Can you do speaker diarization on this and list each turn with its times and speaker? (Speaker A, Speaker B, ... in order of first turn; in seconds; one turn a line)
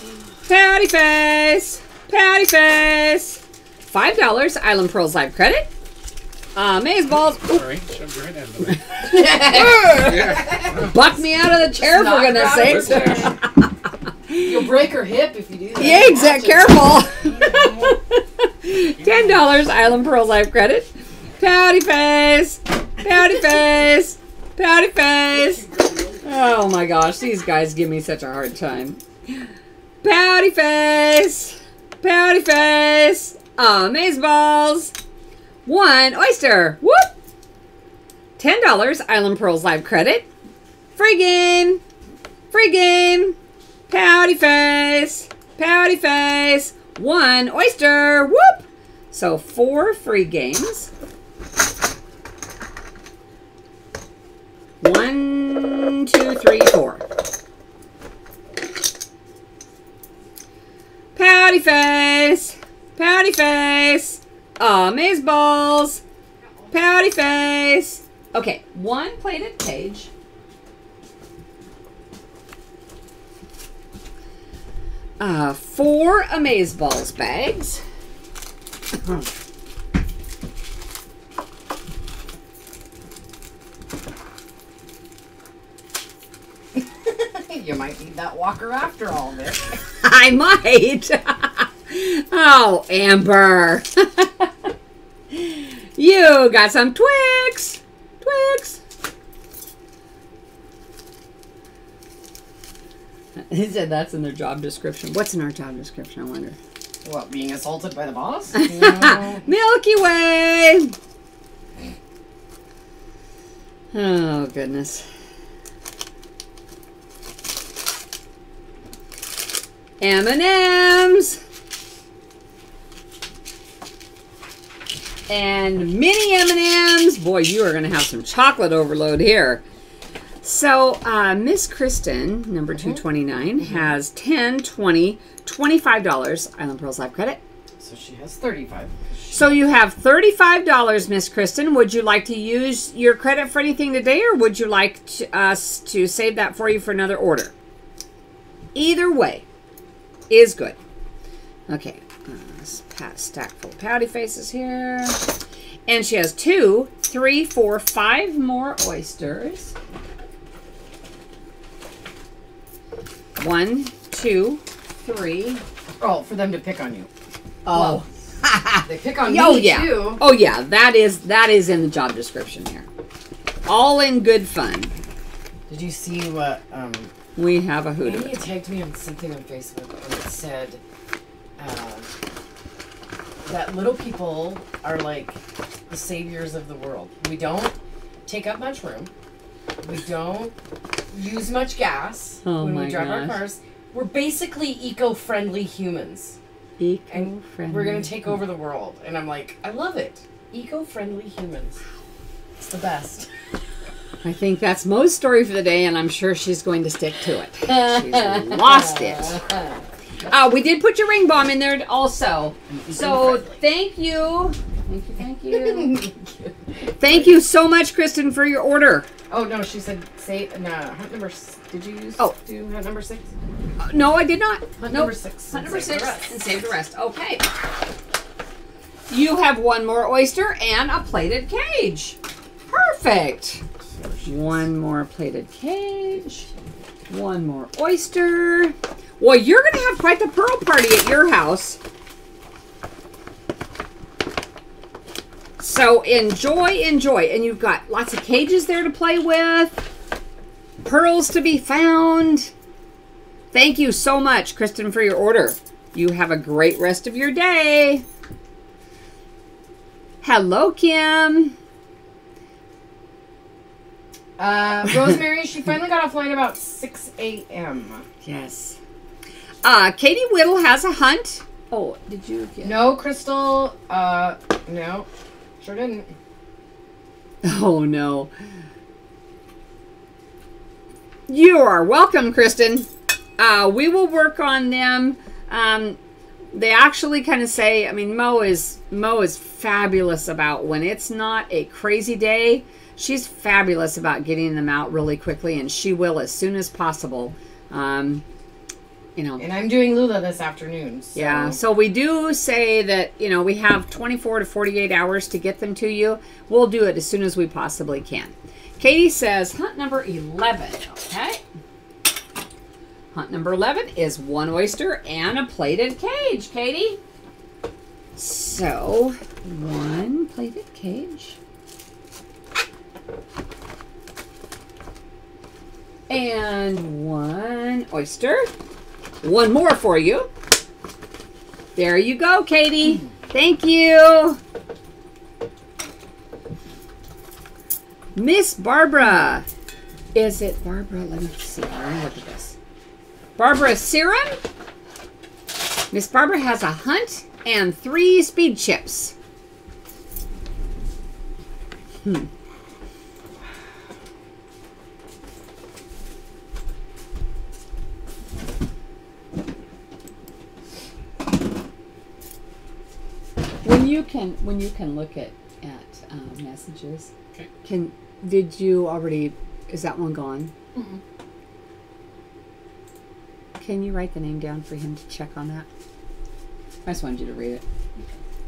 Speaker A: 0.5-5.7
Speaker A: 6.5-7.6
Speaker B: 7.4-10.8
Speaker A: 8.8-13.7
Speaker C: 9.2-10.8
Speaker C: 11.7-13.4
Speaker B: 12.4-13.3
Speaker A: 14.3-14.6
Speaker C: 14.4-16.9
Speaker A: 15.8-25.7
Speaker B: 17.3-18.0
Speaker B: 18.9-19.5
Speaker A: 26.2-29.5
Speaker A: 30.0-34.9
Speaker A: 35.6-37.1
Speaker A: 38.4-40.3
Speaker A: 41.0-41.8
Speaker A: 42.5-43.4
Speaker A: 43.9-50.9
Speaker A: 54.8-57.0
Speaker A: 61.1-66.0
Speaker A: 66.7-70.1
Speaker A: 75.2-77.8
Speaker A: 79.0-79.2
Speaker C: 86.7-89.7
Speaker A: 90.0-94.7
Speaker A: 95.3-98.8
Speaker A: 103.5-106.6
Speaker C: 107.0-109.5
Speaker A: 108.5-110.9
Speaker A: 113.9-115.1
Speaker A: 120.0-121.4
Speaker A: 125.3-129.6
Speaker A: 130.4-137.4
Speaker C: 133.6-133.8
Speaker C: 137.8-139.6
Speaker A: 139.3-147.5
Speaker A: 148.7-149.4
Speaker A: 150.3-150.8
Speaker A: 151.7-155.2
Speaker A: 155.9-159.7
Speaker A: 163.4-165.6
Speaker C: 166.0-167.1
Speaker A: 167.6-172.9
Speaker C: 167.7-168.0
Speaker C: 168.8-170.2
Speaker A: 173.7-174.9
Speaker C: 175.7-177.1
Speaker A: 177.3-178.3
Speaker C: 178.0-180.8
Speaker C: 181.6-182.1
Speaker C: 183.4-187.7
Speaker C: 188.2-189.1
Speaker C: 189.8-190.5
Speaker C: 191.1-196.4
Speaker A: 192.4-193.4
Speaker A: 196.8-198.3
Speaker C: 197.1-201.8
Speaker C: 202.6-203.3
Speaker A: 204.2-209.4
Speaker C: 207.8-209.6
Speaker A: 210.3-216.0
Speaker C: 212.7-213.6
Speaker C: 215.5-217.3
Speaker A: 217.0-219.1
Speaker C: 219.3-223.3
Speaker A: 223.8-227.4
Speaker C: 224.8-226.3
Speaker A: 229.1-232.2
Speaker A: 232.7-233.6
Speaker A: 234.2-236.5
Speaker A: 237.1-241.8
Speaker A: 245.6-249.8
Speaker A: 250.8-252.5
Speaker A: 253.5-258.0
Speaker A: 260.2-261.6
Speaker C: 264.4-268.0
Speaker A: 268.2-268.8
Speaker A: 269.6-272.9
Speaker C: 272.6-275.1
Speaker C: 275.6-276.1
Speaker A: 277.4-278.3
Speaker A: 281.3-286.0
Speaker A: 286.5-298.2
Speaker A: 299.1-299.4
Speaker C: 299.4-301.6
Speaker A: 301.1-311.4
Speaker A: 313.1-317.0
Speaker A: 318.2-321.4
Speaker A: 326.1-328.5
Speaker A: 329.2-330.3
Speaker A: 331.8-334.4
Speaker A: 338.1-339.4
Speaker A: 340.1-342.6
Speaker A: 343.4-344.4
Speaker A: 345.9-349.1
Speaker A: 363.6-367.1
Speaker A: 367.6-370.5
Speaker A: 373.6-375.7
Speaker A: 376.8-377.6